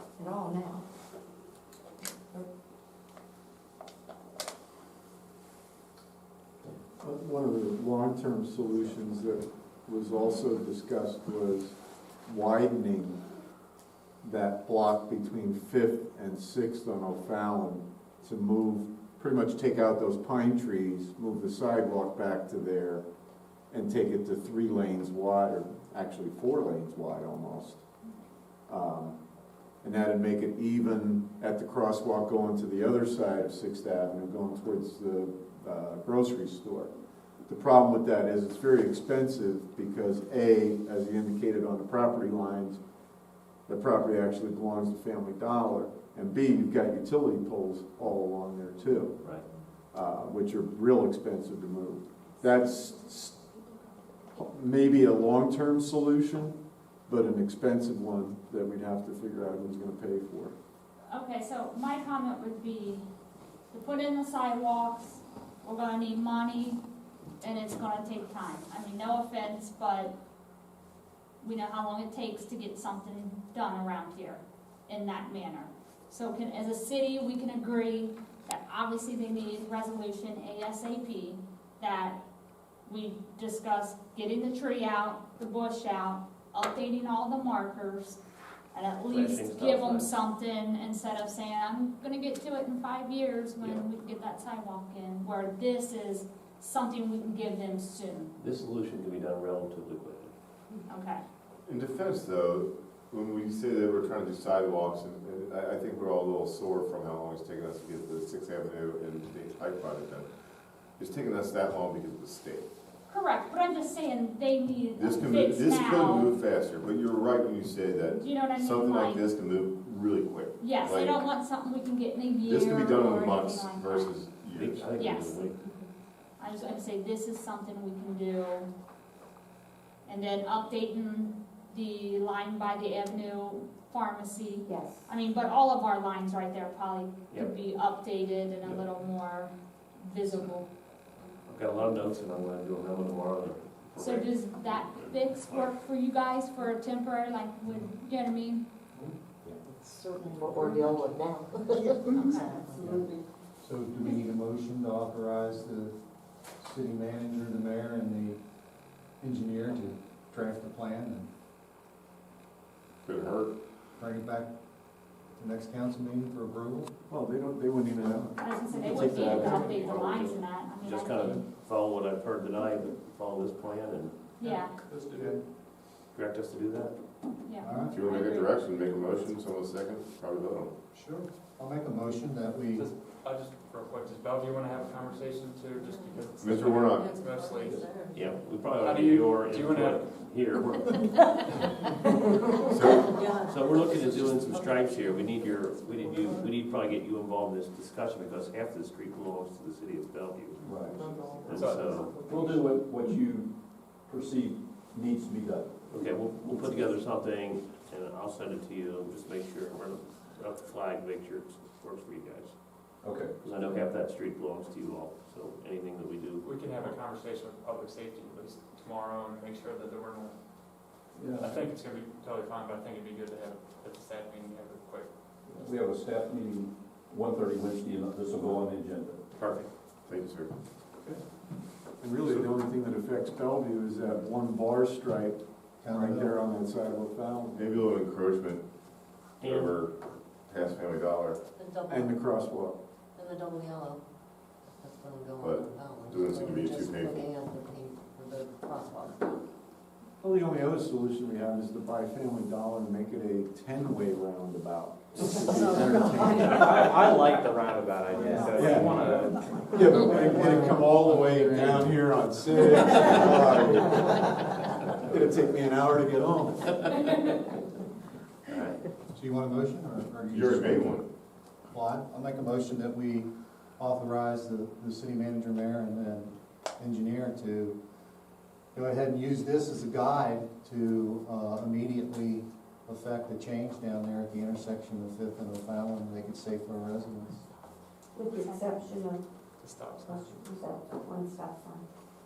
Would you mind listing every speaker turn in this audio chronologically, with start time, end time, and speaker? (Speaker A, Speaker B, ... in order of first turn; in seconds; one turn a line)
Speaker A: 0.2-0.8
Speaker B: 7.0-11.7
Speaker B: 12.2-13.2
Speaker B: 14.2-23.0
Speaker B: 23.7-27.8
Speaker B: 28.7-29.1
Speaker B: 29.8-36.9
Speaker B: 37.5-42.8
Speaker B: 43.7-49.2
Speaker B: 49.9-53.4
Speaker B: 54.3-56.5
Speaker B: 57.1-60.5
Speaker C: 61.1-63.0
Speaker C: 63.7-66.8
Speaker C: 67.4-70.1
Speaker C: 71.4-82.2
Speaker C: 82.8-88.2
Speaker C: 88.7-98.3
Speaker D: 89.1-90.1
Speaker D: 98.4-100.3
Speaker C: 100.9-101.2
Speaker E: 101.6-110.3
Speaker E: 111.0-112.7
Speaker C: 113.1-116.3
Speaker E: 115.0-121.2
Speaker C: 118.1-119.2
Speaker C: 120.6-124.1
Speaker E: 122.4-125.0
Speaker D: 124.5-125.6
Speaker C: 125.0-125.4
Speaker C: 126.4-128.7
Speaker C: 130.1-140.7
Speaker D: 141.5-145.7
Speaker C: 144.0-148.7
Speaker F: 150.0-152.0
Speaker C: 152.1-152.6
Speaker G: 152.8-153.1
Speaker G: 153.6-155.9
Speaker G: 156.6-158.4
Speaker G: 159.2-161.3
Speaker E: 163.0-163.5
Speaker G: 164.0-164.5
Speaker G: 165.4-166.9
Speaker B: 167.1-170.3
Speaker C: 168.4-171.4
Speaker E: 169.7-170.2
Speaker D: 170.8-174.1
Speaker C: 174.4-174.7
Speaker H: 174.9-175.3
Speaker G: 175.1-175.4
Speaker D: 176.1-176.9
Speaker C: 177.4-178.5
Speaker G: 177.6-177.9
Speaker E: 177.9-180.7
Speaker I: 180.9-181.2
Speaker G: 181.6-182.9
Speaker I: 182.7-187.9
Speaker F: 185.8-186.2
Speaker E: 186.4-187.1
Speaker F: 187.0-188.2
Speaker D: 188.1-191.3
Speaker I: 188.8-190.1
Speaker E: 192.7-193.2
Speaker F: 193.2-194.2
Speaker D: 193.3-200.6
Speaker H: 200.6-201.1
Speaker I: 201.3-201.9
Speaker D: 201.4-202.2
Speaker H: 202.2-205.7
Speaker D: 205.9-212.9
Speaker H: 213.0-213.7
Speaker D: 213.4-216.4
Speaker I: 216.4-220.3
Speaker H: 221.1-221.6
Speaker I: 221.4-225.1
Speaker H: 225.5-229.2
Speaker E: 230.1-230.5
Speaker B: 232.0-237.7
Speaker G: 235.8-236.3
Speaker E: 237.5-238.6
Speaker D: 239.4-239.7
Speaker E: 239.4-240.0
Speaker E: 240.5-241.4
Speaker F: 241.6-242.2
Speaker B: 241.9-242.8
Speaker F: 243.2-244.0
Speaker F: 244.7-249.4
Speaker E: 245.4-247.4
Speaker B: 250.2-257.0
Speaker F: 255.5-257.4
Speaker J: 256.6-259.3
Speaker H: 258.2-258.6
Speaker B: 258.4-264.4
Speaker I: 258.6-259.2
Speaker B: 265.0-266.8
Speaker D: 268.5-268.8
Speaker G: 269.1-271.0
Speaker E: 270.3-271.1
Speaker G: 271.7-277.7
Speaker G: 278.7-287.4
Speaker A: 288.1-289.2
Speaker C: 288.3-288.7
Speaker I: 289.6-290.6
Speaker A: 290.1-291.8